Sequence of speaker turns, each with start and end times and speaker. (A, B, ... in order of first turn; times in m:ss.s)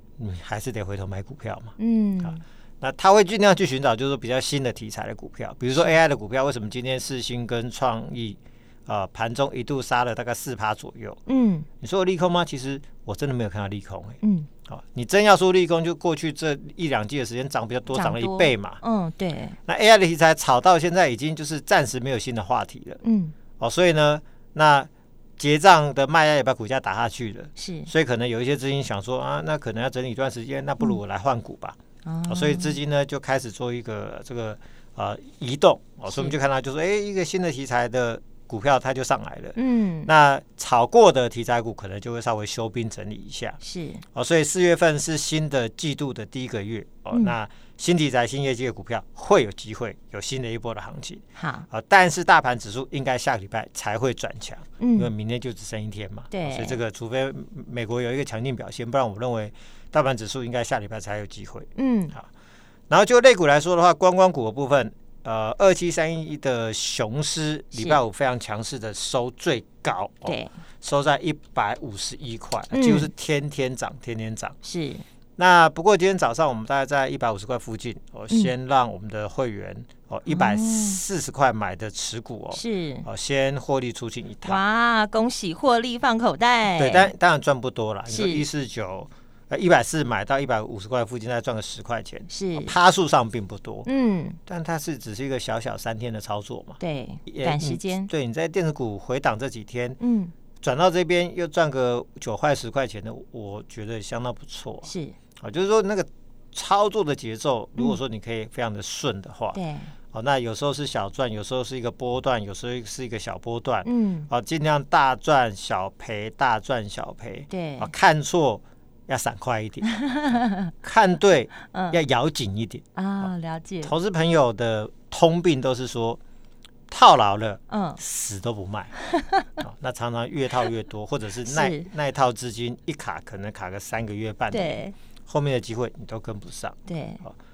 0:00.2-0:11.2 A
0:01.8-0:02.4 B
0:11.3-0:11.7 B
0:11.8-0:18.8 A
0:14.2-0:14.5 B
0:17.9-0:19.6 B
0:19.6-0:23.0 A
0:23.0-0:23.3 B
0:23.6-0:43.6 A
0:27.6-0:27.9 B
0:32.0-0:32.8 B
0:36.1-0:36.4 B
0:39.6-0:40.1 B
0:43.6-0:44.0 B
0:44.1-1:02.3 A
0:51.4-0:51.7 B
0:54.8-0:55.1 B
0:56.3-0:56.8 B
1:01.8-1:02.2 B
1:02.9-1:14.6 A
1:07.7-1:08.0 B
1:10.2-1:10.5 B
1:12.7-1:13.1 B
1:14.6-1:15.0 B
1:15.4-1:24.6 A
1:20.3-1:21.0 B
1:22.5-1:23.1 B
1:24.4-1:27.1 B
1:26.7-1:33.9 A
1:28.1-1:28.5 B
1:32.3-1:32.7 B
1:33.9-1:34.4 B
1:34.5-1:40.0 A
1:36.8-1:38.1 B
1:40.0-1:40.3 B
1:40.6-1:49.6 A
1:44.8-1:45.2 B
1:49.5-1:49.9 B
1:50.1-2:03.3 A
1:53.8-1:54.3 B
1:57.5-1:57.9 B
1:59.9-2:00.7 B
2:01.7-2:02.0 B
2:03.0-2:03.9 B
2:03.8-2:06.2 A
2:06.9-2:08.9 A
2:07.7-2:08.0 B
2:09.0-2:09.5 B
2:09.6-2:17.3 A
2:11.4-2:11.9 B
2:14.5-2:15.0 B
2:16.9-2:17.2 B